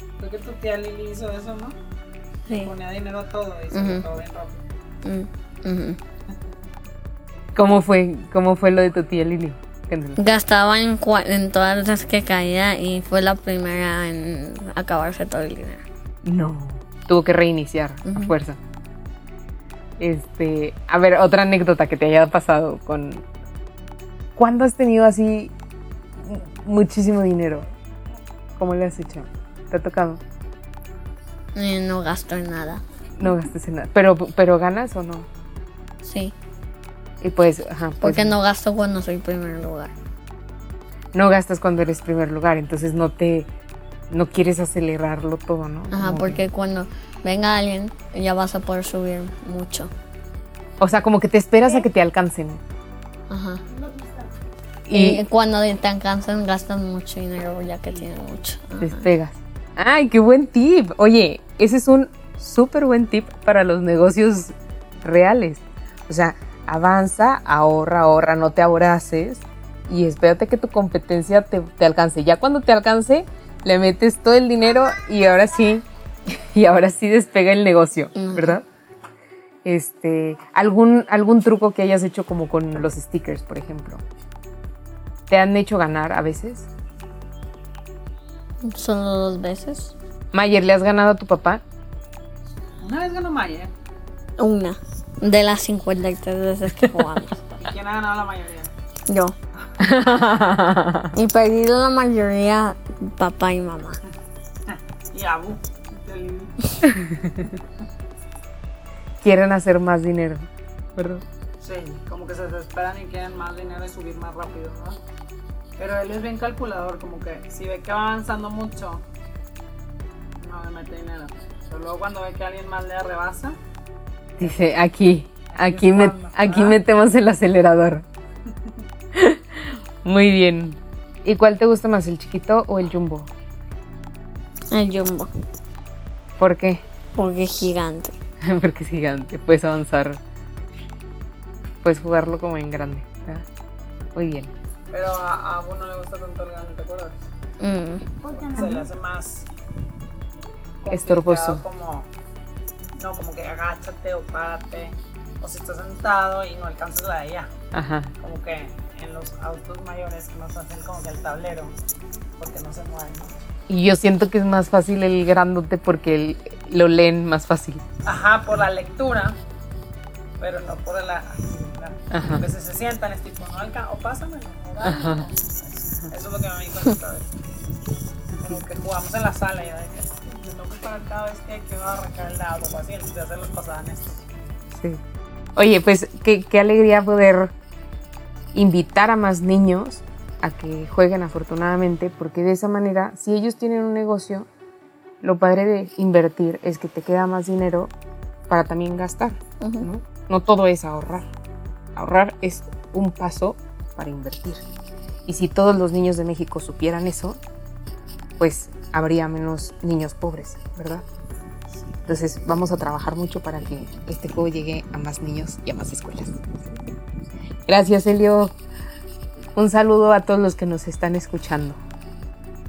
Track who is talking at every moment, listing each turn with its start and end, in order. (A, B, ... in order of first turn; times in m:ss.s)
0:00.2-0:01.8 A
0:02.5-0:04.6 A
0:03.7-0:04.1 B
0:05.0-0:06.0 B
0:07.6-0:10.2 C
0:10.2-0:15.8 B
0:16.2-0:18.6 C
0:18.1-0:18.3 B
0:20.0-0:23.2 C
0:24.4-0:25.5 C
0:26.2-0:27.7 C
0:28.6-0:30.2 C
0:31.6-0:32.8 B
0:33.2-0:35.3 C
0:36.0-0:36.4 B
0:37.2-0:38.4 C
0:38.0-0:39.9 B
0:41.1-0:43.5 C
0:44.1-0:46.4 C
0:45.9-0:49.9 B
0:50.8-0:52.6 C
0:53.3-0:53.7 B
0:54.9-0:55.2 C
0:54.9-0:59.1 B
0:58.8-1:18.6 C
1:18.2-1:18.6 B
1:19.6-1:24.0 C
1:25.3-1:26.7 C
1:28.6-1:30.0 B
1:30.3-1:31.6 C
1:32.8-1:33.7 A
1:34.4-1:37.6 B
1:37.6-1:38.7 A
1:39.1-1:39.3 B
1:39.8-1:41.1 C
1:41.1-1:44.0 B
1:44.7-1:46.8 A
1:46.9-1:47.3 C
1:49.2-1:51.2 C
1:51.6-1:55.0 A
1:55.8-1:59.0 A
2:00.4-2:03.6 A
2:04.4-2:08.0 C
2:05.5-2:06.8 A
2:09.1-2:13.3 C
2:14.7-2:15.3 B
2:16.4-2:16.8 C
2:17.2-2:18.2 B
2:18.4-2:20.2 C
2:21.8-2:23.5 C
2:24.2-2:24.5 C
2:24.9-2:27.2 A
2:27.6-2:28.2 B
2:28.3-2:29.5 A
2:30.8-2:32.1 A
2:30.9-2:31.6 C
2:33.0-2:37.5 A
2:37.7-2:38.1 C
2:38.2-2:41.8 A
2:42.4-2:43.4 A
2:43.7-2:47.8 C
2:48.0-2:49.4 A
2:50.4-2:57.3 A
2:52.1-2:52.4 C
2:54.8-2:55.3 C
2:58.4-3:04.2 A
3:04.8-3:05.0 C
3:05.6-3:07.5 C
3:08.5-3:14.5 C
3:15.2-3:17.9 C
3:18.5-3:21.3 C
3:19.6-3:19.9 B
3:22.0-3:24.6 C
3:25.3-3:27.4 C
3:28.4-3:31.0 C
3:32.1-3:36.7 C
3:37.7-3:38.5 C
3:39.6-3:41.8 C